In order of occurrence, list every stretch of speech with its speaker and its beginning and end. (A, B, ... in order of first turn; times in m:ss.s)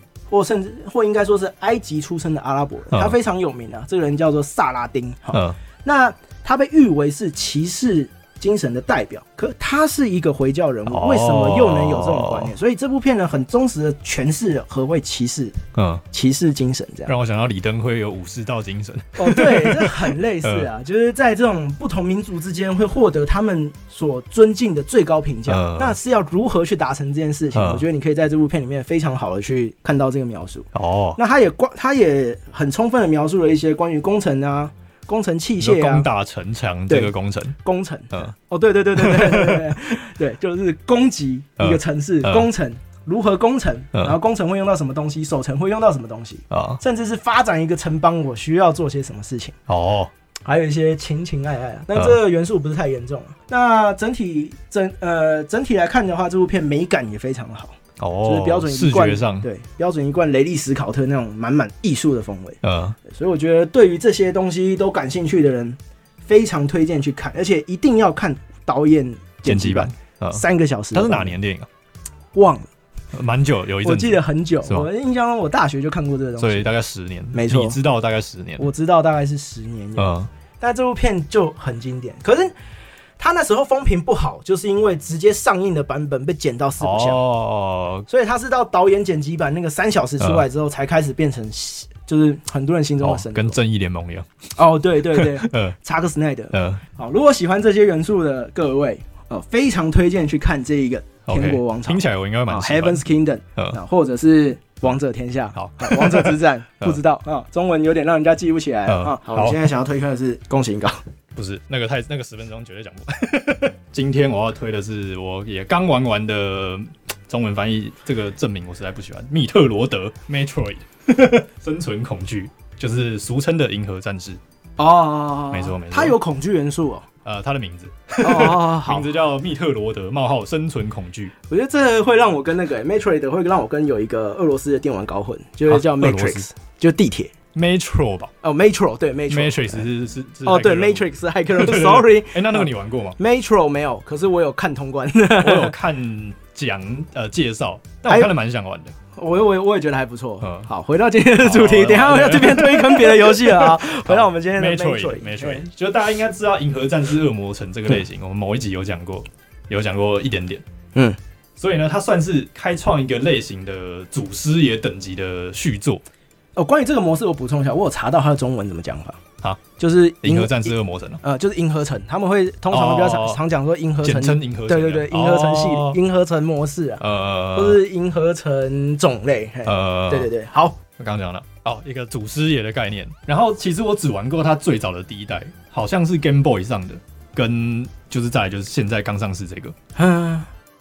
0:00.3-0:15.6 A
0:05.3-0:05.6 B
0:10.9-0:12.5 B
0:15.7-0:16.0 B
0:16.1-0:17.1 A
0:17.1-0:20.7 B
0:19.2-0:36.1 A
0:25.5-0:26.0 B
0:27.5-0:27.9 B
0:30.7-0:31.2 B
0:35.6-0:37.6 B
0:36.9-0:49.6 A
0:39.0-0:39.7 B
0:41.6-0:42.5 B
0:46.5-0:46.8 B
0:49.7-0:50.1 B
0:50.5-1:11.4 A
0:58.0-0:59.5 B
1:02.6-1:03.0 B
1:09.4-1:11.7 B
1:12.3-1:12.7 A
1:13.1-1:14.9 B
1:13.8-1:16.7 A
1:16.4-1:18.7 B
1:17.3-1:17.8 A
1:18.6-1:22.5 A
1:20.0-1:20.3 B
1:23.2-1:27.2 A
1:26.8-1:28.1 B
1:28.1-1:33.6 A
1:30.2-1:30.4 B
1:33.0-1:34.3 B
1:34.6-1:51.0 A
1:35.1-1:35.8 B
1:36.5-1:36.8 B
1:41.3-1:43.0 B
1:45.6-1:47.0 B
1:48.9-1:49.7 B
1:51.4-2:04.4 B
2:04.8-2:07.1 A
2:05.5-2:06.2 B
2:07.2-2:11.3 B
2:08.2-2:09.1 A
2:11.5-2:17.3 A
2:15.7-2:16.5 B
2:17.5-2:18.3 B
2:18.4-2:19.9 A
2:19.3-2:23.2 B
2:20.4-2:25.8 A
2:25.4-2:29.0 B
2:28.0-2:28.3 A
2:29.2-2:35.6 A
2:30.4-2:30.7 B
2:31.4-2:40.6 B
2:41.6-2:46.0 B
2:46.6-2:49.2 A
2:49.8-2:57.0 A
2:50.2-2:51.2 B
2:52.7-2:53.4 B
2:54.0-2:56.0 B
2:57.0-2:57.8 B
2:57.5-3:00.8 A
2:59.7-3:00.3 B
3:01.0-3:09.8 B
3:10.0-3:10.5 A